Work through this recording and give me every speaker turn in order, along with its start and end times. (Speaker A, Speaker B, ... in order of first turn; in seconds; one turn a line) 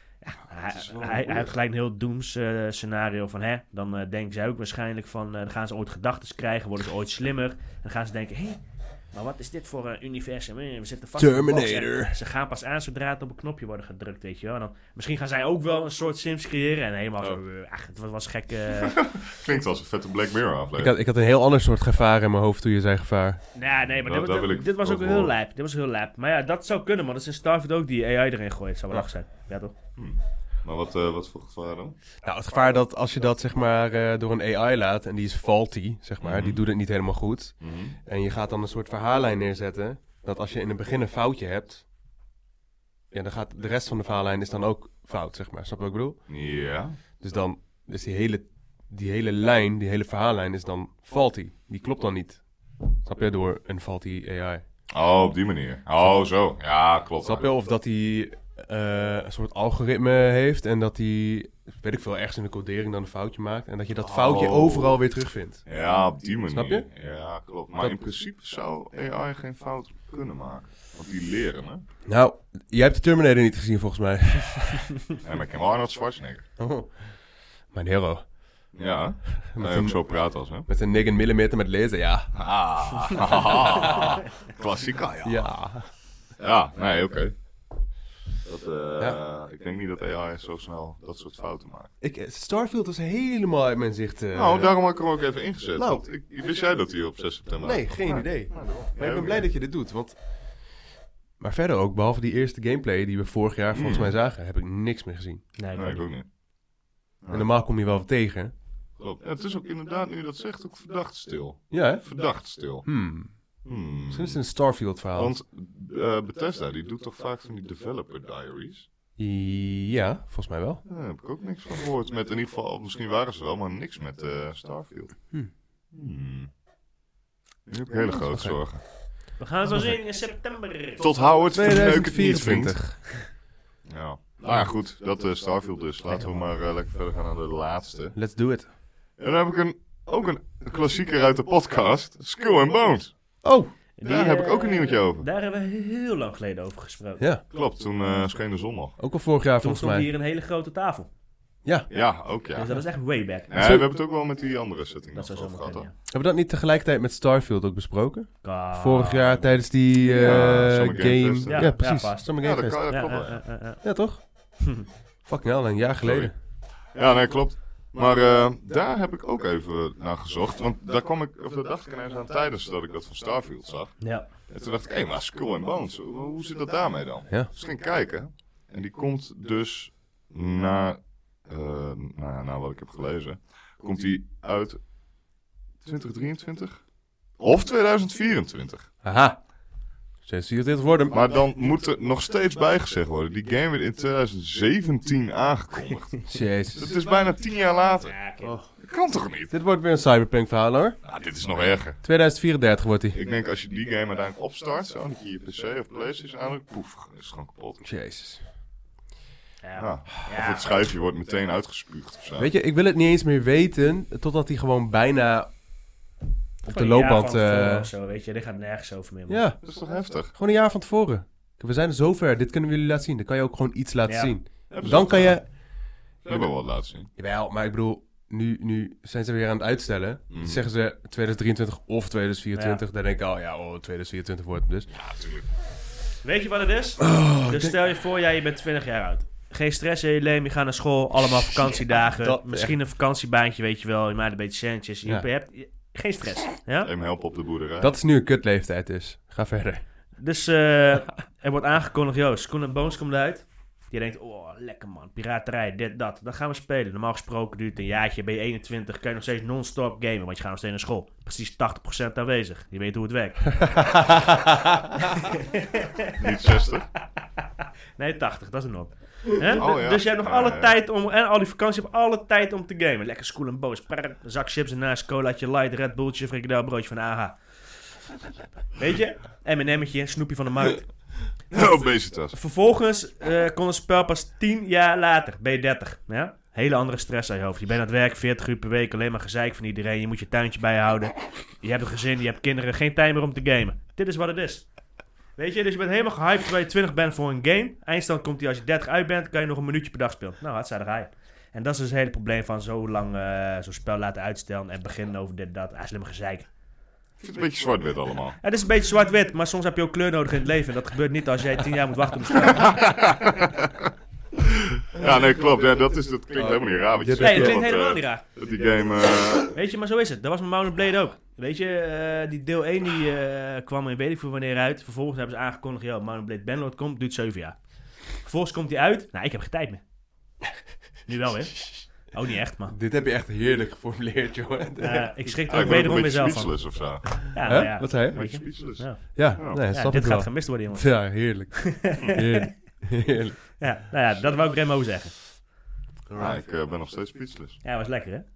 Speaker A: 0.2-19.0
Speaker B: 0.7-1.5
Speaker C: 11.2-12.2
Speaker B: 18.8-20.9
Speaker C: 20.8-23.4
Speaker A: 23.5-29.7
Speaker B: 23.8-25.3
Speaker B: 30.0-32.0
Speaker C: 32.2-41.9
Speaker B: 36.2-36.6
Speaker B: 37.6-38.0
Speaker C: 43.1-46.2
Speaker B: 46.3-47.0
Speaker C: 47.2-52.4
Speaker C: 53.0-54.6
Speaker B: 54.9-57.5
Speaker C: 57.2-65.7
Speaker B: 64.0-65.0
Speaker B: 65.7-71.8
Speaker C: 66.5-66.9
Speaker C: 67.8-68.0
Speaker C: 72.1-75.0
Speaker B: 75.2-76.5
Speaker C: 76.6-77.2
Speaker C: 77.7-78.3
Speaker B: 78.7-80.7
Speaker C: 79.5-80.1
Speaker C: 80.7-82.3
Speaker B: 82.3-85.6
Speaker C: 83.8-84.1
Speaker C: 85.2-85.9
Speaker B: 86.4-87.3
Speaker B: 88.4-91.9
Speaker C: 92.0-94.7
Speaker B: 94.3-99.5
Speaker C: 95.8-96.0
Speaker C: 97.6-100.6
Speaker C: 101.4-105.5
Speaker B: 103.7-104.2
Speaker A: 105.6-106.0
Speaker B: 105.7-106.3
Speaker B: 107.2-107.5
Speaker C: 107.3-108.5
Speaker B: 109.0-112.9
Speaker C: 111.7-112.0
Speaker C: 112.8-113.3
Speaker B: 113.7-114.4
Speaker C: 114.1-115.3
Speaker B: 115.2-118.9
Speaker C: 119.2-120.8
Speaker B: 120.9-125.3
Speaker B: 125.9-126.5
Speaker B: 127.7-128.8
Speaker C: 128.1-128.6
Speaker A: 129.4-131.3
Speaker C: 129.7-130.0
Speaker B: 131.0-133.1
Speaker C: 131.5-133.1
Speaker B: 133.9-138.2
Speaker C: 136.1-136.4
Speaker C: 138.2-138.7
Speaker B: 139.2-143.2
Speaker C: 143.4-143.7
Speaker A: 144.0-147.2
Speaker B: 144.0-145.3
Speaker C: 147.2-147.4
Speaker B: 147.5-149.0
Speaker C: 149.0-150.1
Speaker A: 149.6-151.1
Speaker B: 151.9-152.8
Speaker A: 152.6-153.5
Speaker B: 153.5-155.9
Speaker C: 153.6-153.9
Speaker A: 155.2-155.9
Speaker C: 156.1-162.9
Speaker A: 158.4-159.4
Speaker B: 160.1-161.8
Speaker A: 161.5-163.8
Speaker B: 162.4-163.4
Speaker C: 163.8-164.2
Speaker A: 164.6-164.9
Speaker C: 165.2-166.3
Speaker B: 166.0-166.3
Speaker B: 166.9-184.8
Speaker A: 174.0-174.3
Speaker B: 185.8-186.8
Speaker B: 187.4-188.9
Speaker C: 189.0-189.4
Speaker C: 190.2-191.3
Speaker B: 191.1-198.2
Speaker C: 196.3-196.9
Speaker A: 198.0-198.6
Speaker C: 198.4-198.7
Speaker B: 198.8-199.5
Speaker C: 199.5-201.0
Speaker B: 201.0-202.0
Speaker C: 202.0-203.2
Speaker B: 203.1-207.8
Speaker C: 207.8-208.4
Speaker A: 209.6-210.7
Speaker B: 209.8-212.5
Speaker C: 212.4-215.5
Speaker C: 216.7-217.9
Speaker A: 216.7-219.4
Speaker C: 219.3-219.6
Speaker B: 219.6-220.3
Speaker C: 220.3-225.5
Speaker A: 224.1-224.3
Speaker B: 224.7-225.4
Speaker B: 226.2-227.1
Speaker C: 227.2-234.9
Speaker B: 230.3-230.7
Speaker A: 232.6-232.8
Speaker B: 234.9-235.5
Speaker A: 236.2-246.9
Speaker C: 237.0-237.8
Speaker C: 242.2-242.8
Speaker B: 246.8-248.0
Speaker C: 247.8-249.8
Speaker A: 250.2-264.3
Speaker A: 265.0-266.2
Speaker B: 266.1-266.9
Speaker A: 267.4-277.4
Speaker B: 269.6-270.7
Speaker A: 278.8-281.0
Speaker B: 281.5-282.4
Speaker A: 282.3-294.7
Speaker A: 295.4-306.5
Speaker B: 307.2-308.4
Speaker A: 308.4-313.0
Speaker B: 312.6-313.9
Speaker B: 314.4-319.5
Speaker C: 316.4-317.6
Speaker A: 317.2-318.2
Speaker A: 319.5-329.8
Speaker A: 331.1-332.8
Speaker C: 332.7-335.8
Speaker A: 334.8-336.7
Speaker B: 335.5-339.6
Speaker A: 337.2-342.5
Speaker C: 337.4-338.5
Speaker C: 339.1-343.6
Speaker A: 343.6-345.3
Speaker C: 346.1-346.4
Speaker B: 346.2-347.6
Speaker A: 347.6-348.2